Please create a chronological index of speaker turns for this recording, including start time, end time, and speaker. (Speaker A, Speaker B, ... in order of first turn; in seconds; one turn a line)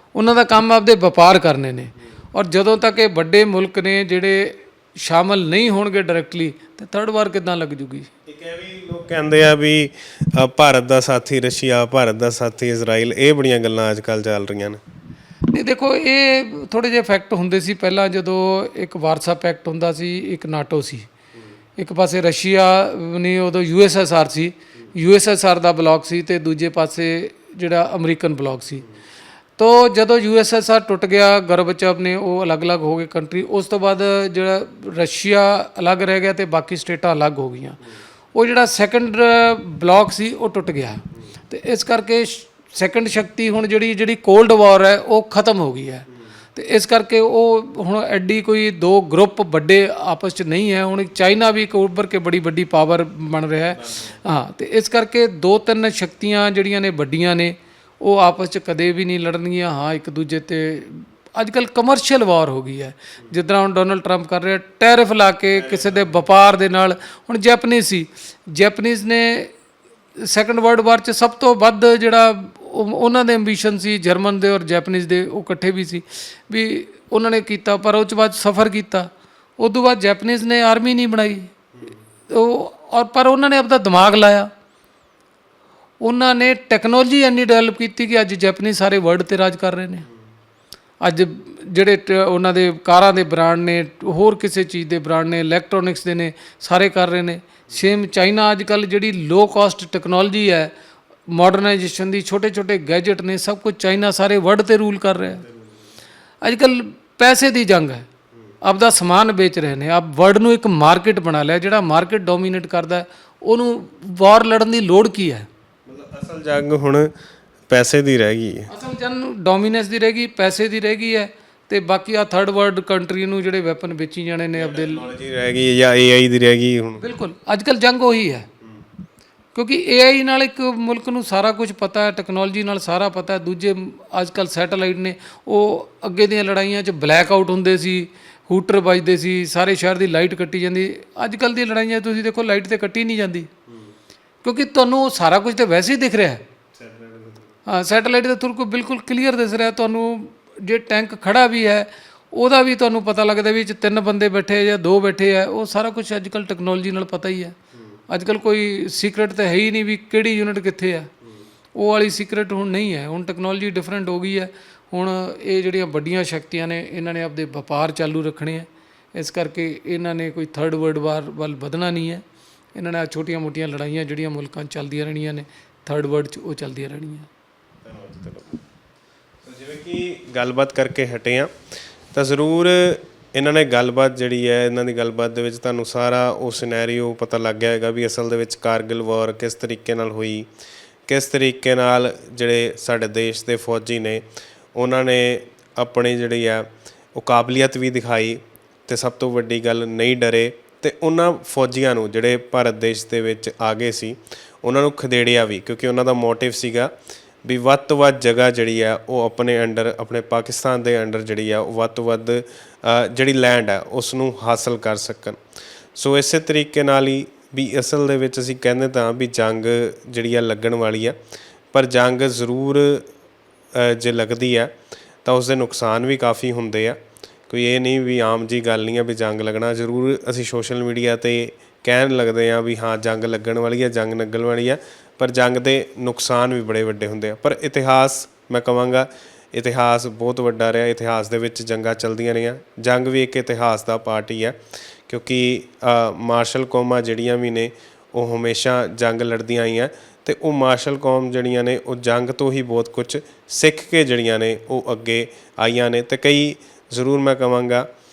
Speaker A: 0.1-8.1
Speaker B: 8.3-14.8
Speaker A: 15.5-21.1
Speaker A: 21.8-28.9
Speaker A: 29.6-37.8
Speaker A: 38.3-69.5
Speaker B: 53.7-54.2
Speaker B: 65.5-66.3
Speaker A: 70.2-81.5
Speaker B: 81.7-82.0
Speaker A: 82.3-84.5
Speaker A: 86.0-90.0
Speaker A: 91.0-100.7
Speaker A: 101.3-105.4
Speaker B: 105.4-105.9
Speaker A: 106.4-108.1
Speaker A: 108.6-115.5
Speaker B: 115.9-117.1
Speaker B: 117.7-118.7
Speaker A: 118.7-125.0
Speaker B: 124.5-127.0
Speaker A: 127.0-128.5
Speaker B: 128.6-128.9
Speaker A: 129.6-143.5
Speaker B: 143.7-143.9
Speaker A: 144.4-146.4
Speaker B: 146.7-147.5
Speaker A: 147.7-157.6
Speaker B: 157.7-158.0
Speaker A: 158.1-161.1
Speaker A: 161.8-177.3
Speaker B: 177.8-178.6
Speaker B: 179.4-181.5
Speaker B: 182.1-190.5
Speaker B: 191.1-194.2
Speaker B: 194.8-206.9
Speaker B: 207.4-215.4
Speaker B: 215.9-221.2
Speaker B: 221.7-223.1
Speaker B: 223.7-224.7
Speaker B: 225.2-227.0
Speaker B: 227.5-257.9